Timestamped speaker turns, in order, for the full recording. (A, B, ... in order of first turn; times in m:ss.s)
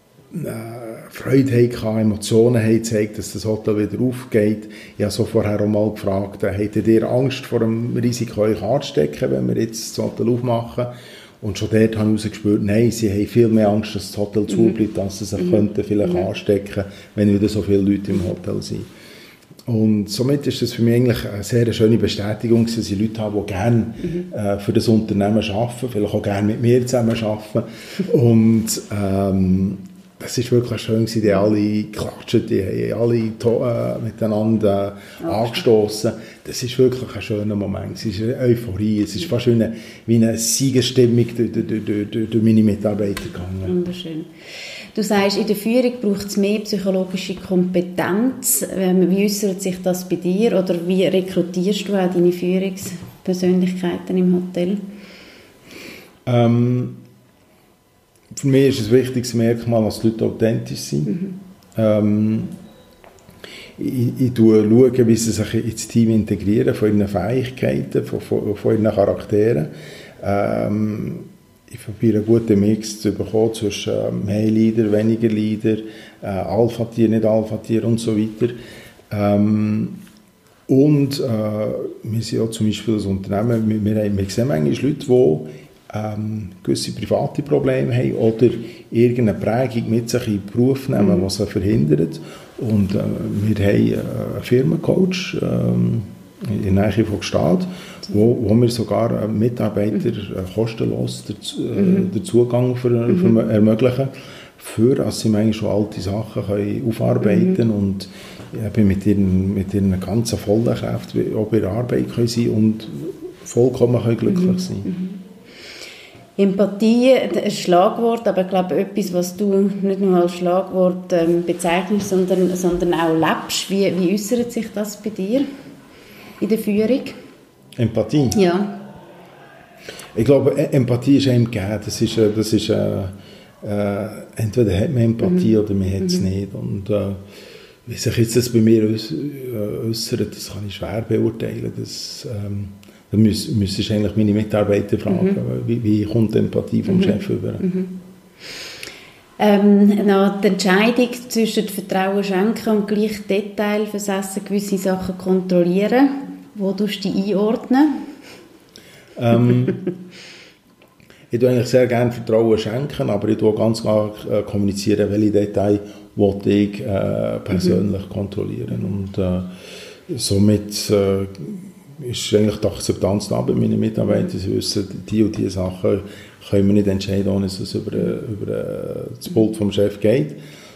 0:00.3-0:10.9 A
0:11.4-0:18.9 A
0:19.7-0:43.7 A
0:43.6-0:44.3 B
0:44.9-0:54.8 B
0:56.2-0:57.0 A
0:58.3-1:02.5 A
1:03.8-1:18.6 A
1:19.1-1:20.0 A
1:20.7-1:54.9 A
1:54.9-1:55.2 B
1:56.4-2:05.4 B
2:06.4-2:07.2 B
2:07.8-2:08.4 A
2:08.3-2:08.8 B
2:10.1-2:17.2 A
2:17.8-2:27.7 A
2:29.4-2:37.9 B
2:39.2-2:39.9 A
2:41.3-2:49.5 A
2:50.1-3:00.4 A